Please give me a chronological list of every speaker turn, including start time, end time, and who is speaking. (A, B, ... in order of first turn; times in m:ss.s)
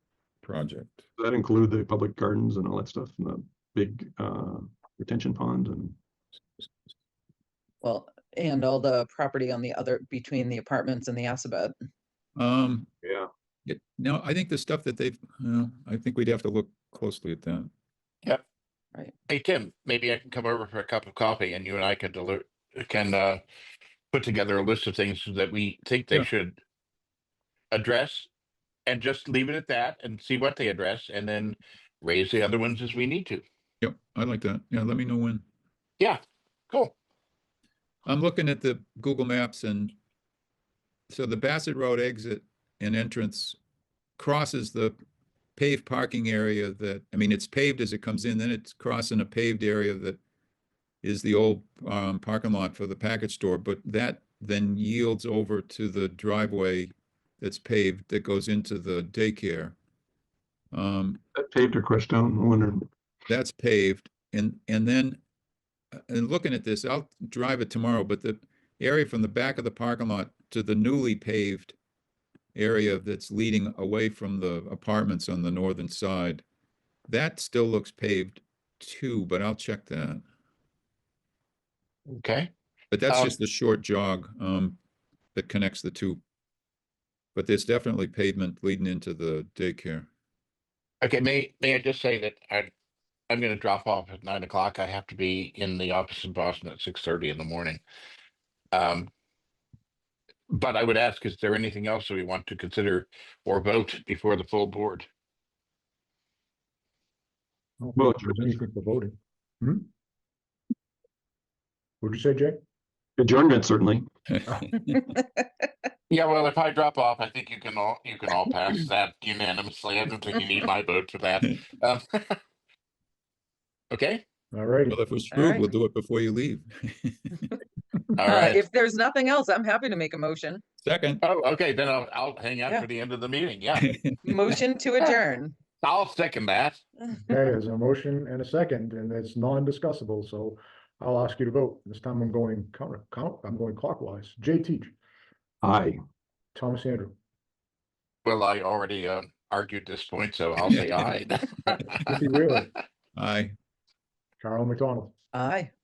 0:00.4-0:01.0 A
0:01.2-0:06.0 B
0:07.8-0:11.7 C
0:12.4-0:12.9 A
0:13.0-0:13.3 B
0:13.6-0:17.7 A
0:19.3-0:23.4 D
0:24.1-0:26.6 D
0:27.7-0:28.3 D
0:28.8-0:33.4 D
0:33.8-0:35.4 A
0:36.0-0:36.9 D
0:38.0-0:39.9 A
0:41.1-0:43.6 A
0:44.2-0:45.0 A
0:45.6-0:50.2 A
0:51.0-0:59.7 A
1:00.7-1:01.2 A
1:01.3-1:02.8 B
1:03.3-1:05.2 A
1:05.9-1:11.7 A
1:12.5-1:16.4 A
1:17.1-1:20.2 A
1:22.1-1:22.5 D
1:22.9-1:24.8 A
1:23.1-1:23.3 D
1:25.3-1:26.2 A
1:27.3-1:30.1 A
1:31.0-1:32.7 D
1:33.3-1:37.8 D
1:38.7-1:39.1 D
1:40.5-1:45.1 D
1:47.8-1:49.9 E
1:48.0-1:48.6 B
1:52.0-1:52.6 E
1:53.2-1:54.1 B
1:54.4-1:55.0 A
1:54.9-1:55.3 C
1:56.1-2:02.4 D
2:03.9-2:04.2 D
2:04.5-2:05.0 E
2:04.9-2:07.4 A
2:05.3-2:05.6 C
2:08.2-2:08.6 D
2:08.2-2:10.6 C
2:10.8-2:11.2 A
2:11.2-2:13.9 D
2:13.8-2:14.2 A
2:14.2-2:15.6 C
2:15.8-2:16.8 D
2:17.3-2:24.9 E
2:25.6-2:26.0 B
2:26.5-2:27.1 E
2:28.2-2:32.0 D
2:32.0-2:32.7 E
2:33.2-2:33.5 A
2:34.4-2:35.1 E
2:35.3-2:35.7 C